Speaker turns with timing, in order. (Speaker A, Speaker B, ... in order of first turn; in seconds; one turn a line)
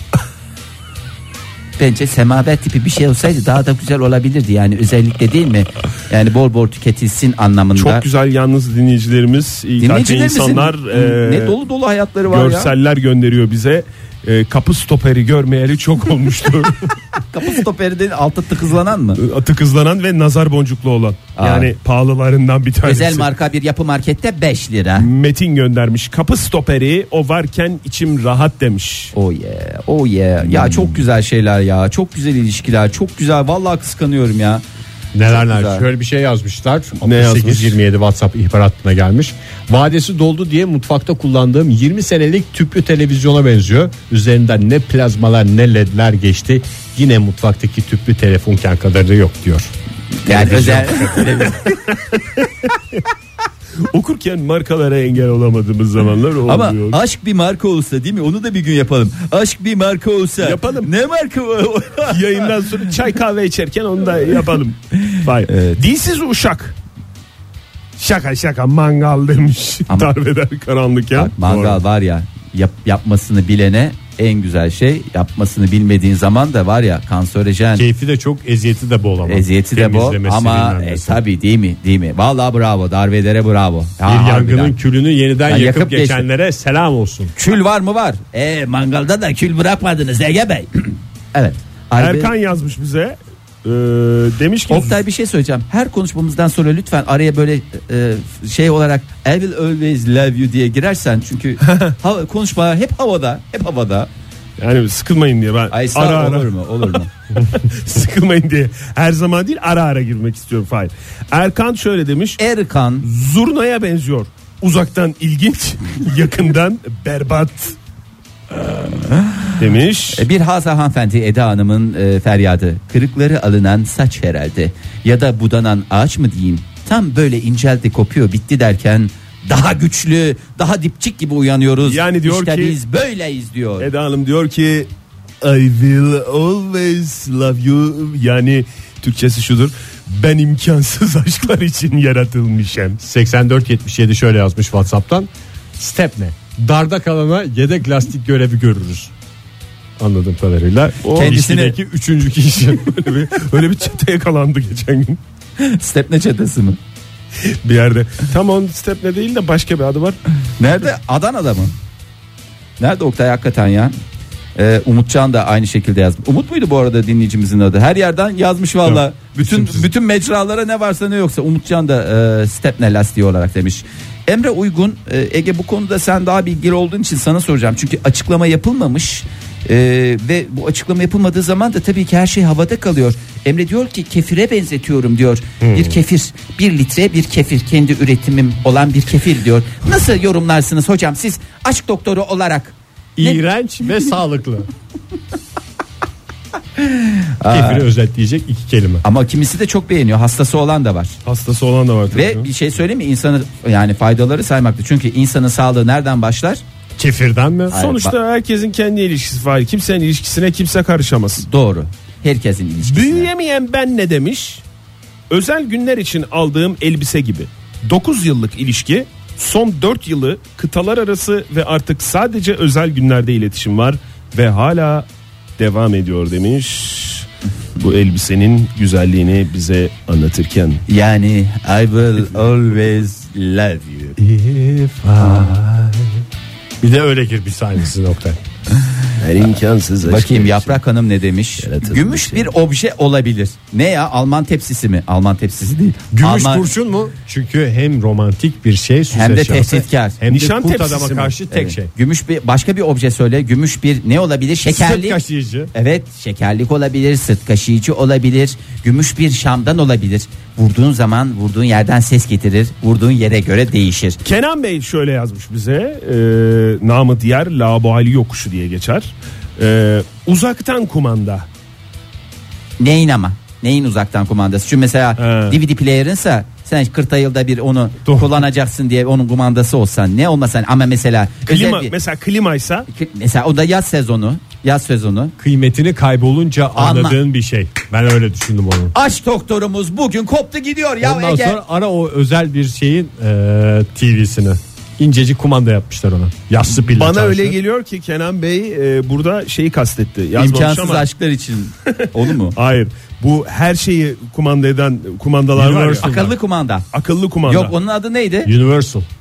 Speaker A: 1.8-8.0
Speaker B: 7.7-11.6
Speaker A: 9.8-12.7
Speaker B: 12.3-16.9
Speaker A: 17.1-19.2
Speaker B: 19.2-23.3
Speaker A: 21.4-21.7
Speaker A: 22.8-25.1
Speaker B: 25.0-29.1
Speaker A: 29.1-34.6
Speaker C: 35.1-49.7
Speaker A: 35.2-35.8
Speaker B: 37.0-37.8
Speaker A: 50.2-51.8
Speaker C: 50.3-51.5
Speaker B: 51.9-53.0
Speaker B: 53.8-57.0
Speaker A: 56.5-62.6
Speaker B: 60.4-60.9
Speaker B: 62.1-66.8
Speaker A: 65.5-65.8
Speaker B: 68.0-71.7
Speaker A: 71.1-77.8
Speaker C: 77.7-81.2
Speaker A: 79.2-84.8
Speaker C: 84.0-87.3
Speaker A: 85.5-86.2
Speaker A: 87.3-92.3
Speaker B: 92.0-95.0
Speaker A: 94.7-104.1
Speaker B: 101.7-101.9
Speaker B: 104.6-112.4
Speaker A: 105.7-107.1
Speaker A: 112.4-113.1
Speaker B: 113.0-117.8
Speaker A: 118.7-119.5
Speaker B: 119.6-120.2
Speaker A: 120.1-133.9
Speaker B: 131.8-132.8
Speaker B: 133.8-134.9
Speaker B: 135.4-143.0
Speaker C: 143.0-149.1
Speaker C: 150.0-153.4
Speaker B: 151.0-151.4
Speaker A: 151.1-151.8
Speaker B: 153.0-155.2
Speaker A: 155.6-156.8
Speaker B: 157.6-160.2
Speaker A: 160.6-161.7
Speaker A: 162.8-163.9
Speaker A: 164.6-193.4
Speaker C: 168.9-169.8
Speaker C: 185.6-185.9
Speaker C: 193.2-194.7
Speaker A: 196.8-197.9
Speaker C: 197.5-199.0
Speaker A: 199.0-201.2
Speaker B: 201.2-202.5
Speaker A: 202.1-206.6
Speaker C: 207.0-207.7
Speaker A: 207.7-208.1
Speaker B: 207.7-211.4
Speaker A: 211.4-213.3
Speaker B: 212.8-214.6
Speaker B: 215.3-225.1
Speaker B: 225.6-227.3
Speaker B: 227.8-230.8
Speaker A: 230.9-234.2
Speaker C: 234.2-236.2
Speaker C: 236.8-238.4
Speaker B: 239.2-240.8
Speaker A: 240.0-246.7
Speaker B: 241.6-242.5
Speaker C: 246.1-251.9
Speaker A: 249.1-250.2
Speaker B: 250.3-251.3
Speaker A: 251.5-255.2
Speaker C: 254.7-255.7
Speaker A: 255.7-264.2
Speaker B: 264.2-271.4
Speaker A: 272.8-281.9
Speaker B: 275.2-275.6
Speaker C: 278.1-278.3
Speaker B: 281.5-282.9
Speaker A: 282.9-285.3
Speaker C: 285.4-288.9
Speaker A: 286.8-287.2
Speaker A: 288.9-291.6
Speaker C: 291.0-297.6
Speaker B: 296.9-301.1
Speaker A: 300.4-302.6
Speaker B: 301.9-306.1
Speaker C: 305.5-306.3
Speaker A: 306.0-306.9
Speaker B: 306.9-307.7
Speaker A: 307.4-308.5
Speaker C: 308.4-309.1